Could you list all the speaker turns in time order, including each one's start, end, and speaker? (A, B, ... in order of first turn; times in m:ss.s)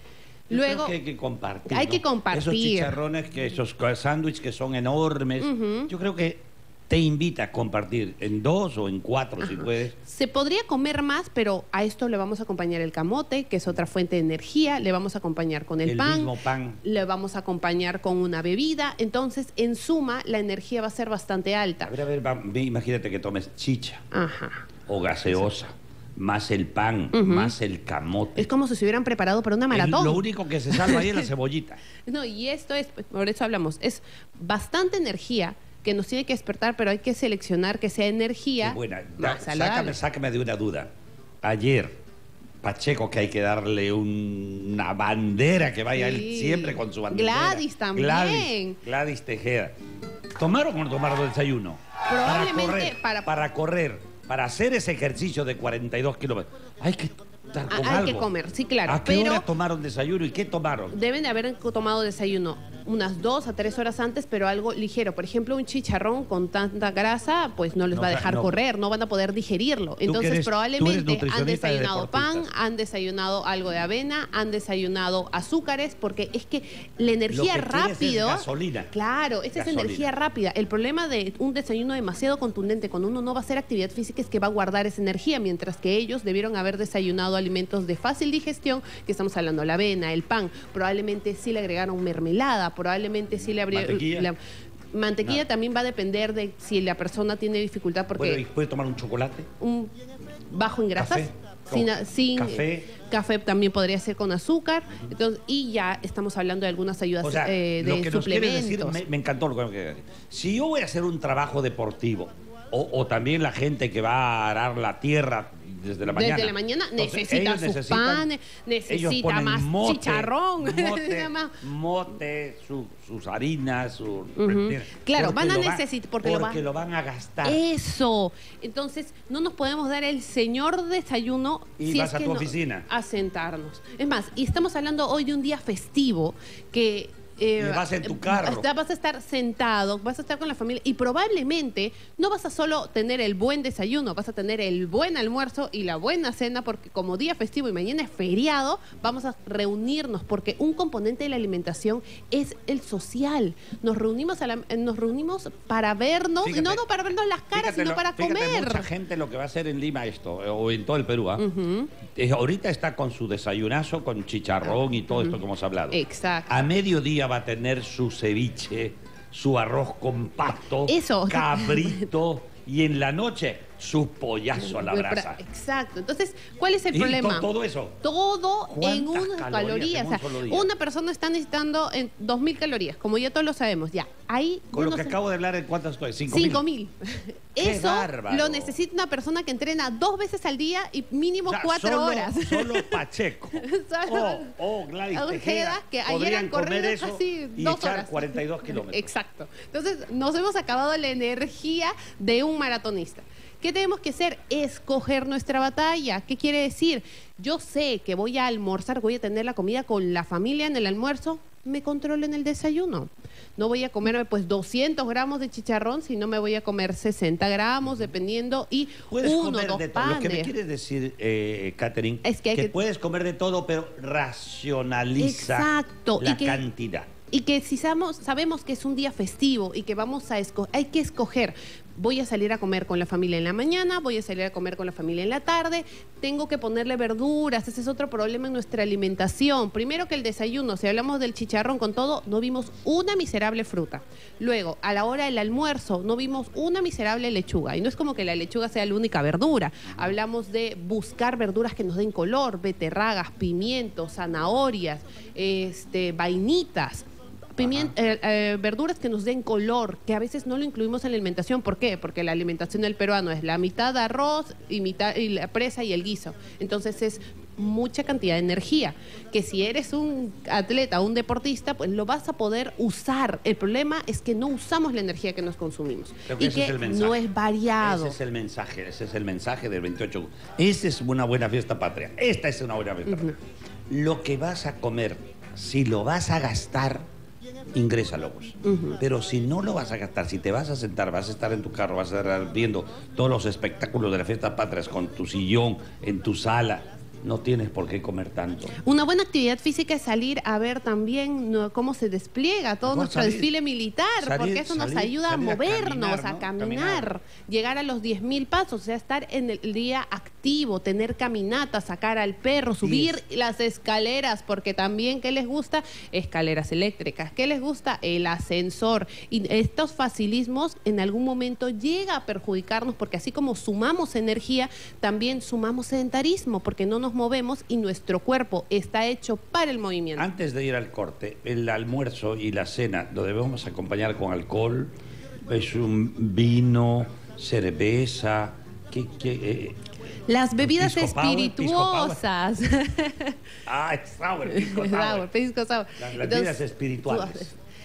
0:00.5-0:01.0 A
0:00.5-0:10.0 B
0:01.7-0:03.0 A
0:05.4-0:05.9 A
0:09.4-0:21.9 A
0:15.8-0:16.8 B
0:21.8-0:24.0 B
0:24.1-0:24.7 A
0:24.9-0:28.5 B
0:27.1-0:27.5 A
0:28.4-0:31.3 A
0:29.7-0:31.8 B
0:32.1-0:40.0 A
0:38.6-0:40.9 B
0:41.4-0:42.0 B
0:42.6-0:49.8 B
0:45.9-0:48.8 A
0:50.4-0:58.3 B
0:52.1-0:53.3 A
0:57.7-0:59.5 A
0:58.9-1:01.0 B
1:00.9-1:34.4 A
1:07.9-1:08.6 B
1:10.0-1:12.5 B
1:17.3-1:18.9 B
1:19.6-1:20.1 B
1:33.7-1:34.3 B
1:34.9-1:38.4 A
1:38.2-1:39.5 B
1:39.6-1:39.9 A
1:40.5-1:49.0 A
1:41.0-1:42.9 B
1:47.2-1:58.3 B
1:56.1-2:01.6 A
1:58.9-2:07.6 B
2:04.4-2:06.6 A
2:07.4-2:38.9 A
2:11.8-2:12.9 B
2:17.6-2:18.7 B
2:36.4-2:36.8 B
2:37.5-2:41.4 B
2:41.4-2:41.9 A
2:42.1-2:55.4 B
2:45.1-2:45.4 A
2:45.9-2:46.5 A
2:50.9-2:52.1 A
2:54.6-2:57.5 A
2:56.9-2:58.0 B
2:58.0-3:05.2 A
2:58.6-3:00.7 B
3:04.7-3:06.6 B
3:06.3-3:13.0 A
3:07.6-3:08.8 B
3:11.5-3:19.1 B
3:13.6-3:14.6 A
3:15.1-3:40.5 A
3:39.1-3:47.1 B
3:42.2-3:42.7 A
3:45.2-3:46.6 A
3:47.3-4:38.2 A
4:09.9-4:10.1 B
4:17.6-4:17.9 B
4:36.3-4:37.2 B
4:37.8-4:47.0 B
4:43.1-4:43.3 A
4:47.7-4:58.8 B
4:48.6-4:49.0 A
4:58.8-5:30.3 A
5:02.8-5:03.5 B
5:04.2-5:07.1 B
5:12.8-5:13.2 B
5:30.2-5:34.9 B
5:35.5-5:39.8 B
5:40.3-5:43.4 A
5:40.6-5:42.2 B
5:43.7-5:45.3 B
5:44.4-5:47.6 A
5:46.0-5:47.5 B